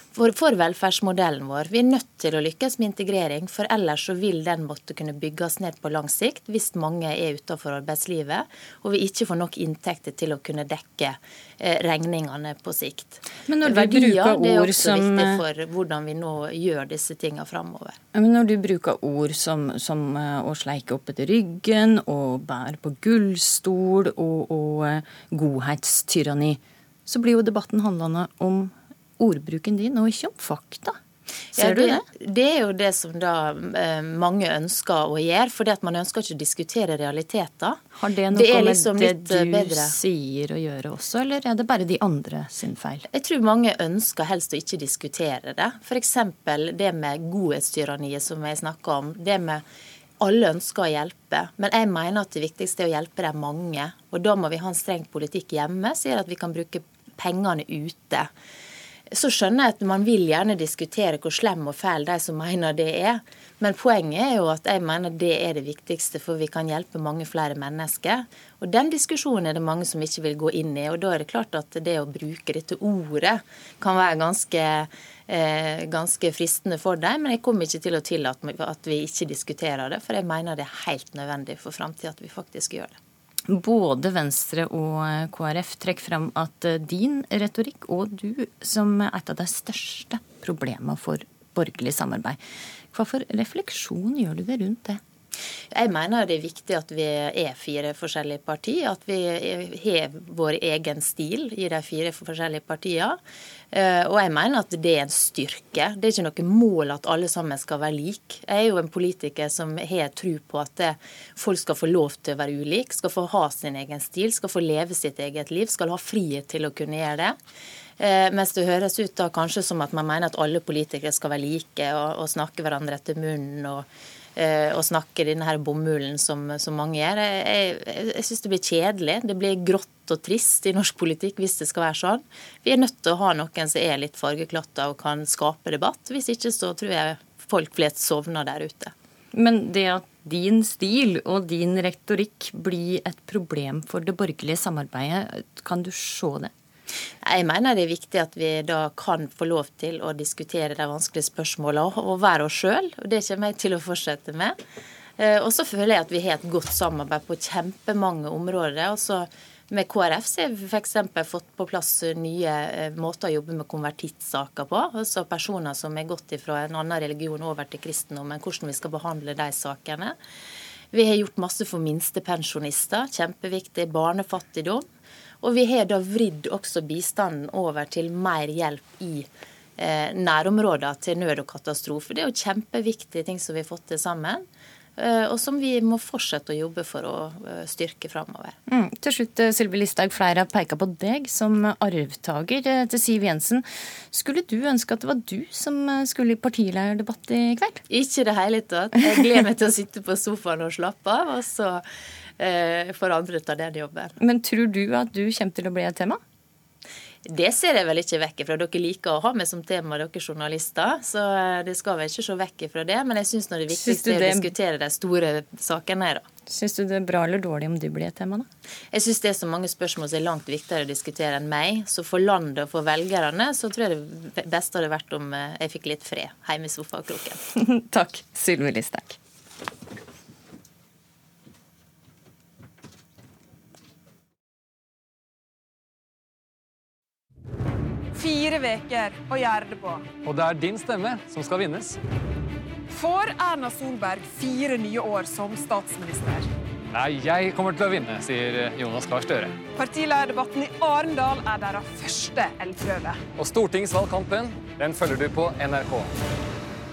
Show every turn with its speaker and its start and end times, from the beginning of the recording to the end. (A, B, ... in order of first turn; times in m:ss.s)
0:00.1-0:18.0 A
0:13.5-0:15.4 B
0:18.1-0:31.0 B
0:31.5-0:32.0 B
0:31.6-0:40.0 A
0:38.0-0:43.0 B
0:43.1-0:49.6 A
0:50.2-0:58.3 A
0:59.1-1:23.0 A
1:23.5-1:32.4 B
1:32.9-1:35.0 B
1:35.7-1:43.2 A
1:43.7-1:57.4 A
1:58.0-2:18.9 A
2:19.3-2:26.5 B
2:27.2-2:34.6 A
2:35.2-2:50.2 A
2:50.9-2:54.8 A
2:55.4-2:59.3 A
2:59.8-3:04.4 A
3:05.0-3:08.6 A
3:08.7-3:17.8 B
3:17.9-3:21.8 A
3:22.4-3:24.2 A
3:24.2-3:26.2 B
3:27.3-3:36.2 A
3:33.7-3:34.5 B
3:36.5-3:38.5 B
3:38.9-3:47.4 A
3:47.6-3:49.2 B
3:58.1-4:00.1 C
4:00.2-4:02.0 D
4:02.9-4:06.5 C
4:06.9-4:09.5 D
4:09.7-4:13.2 C
4:13.4-4:16.1 D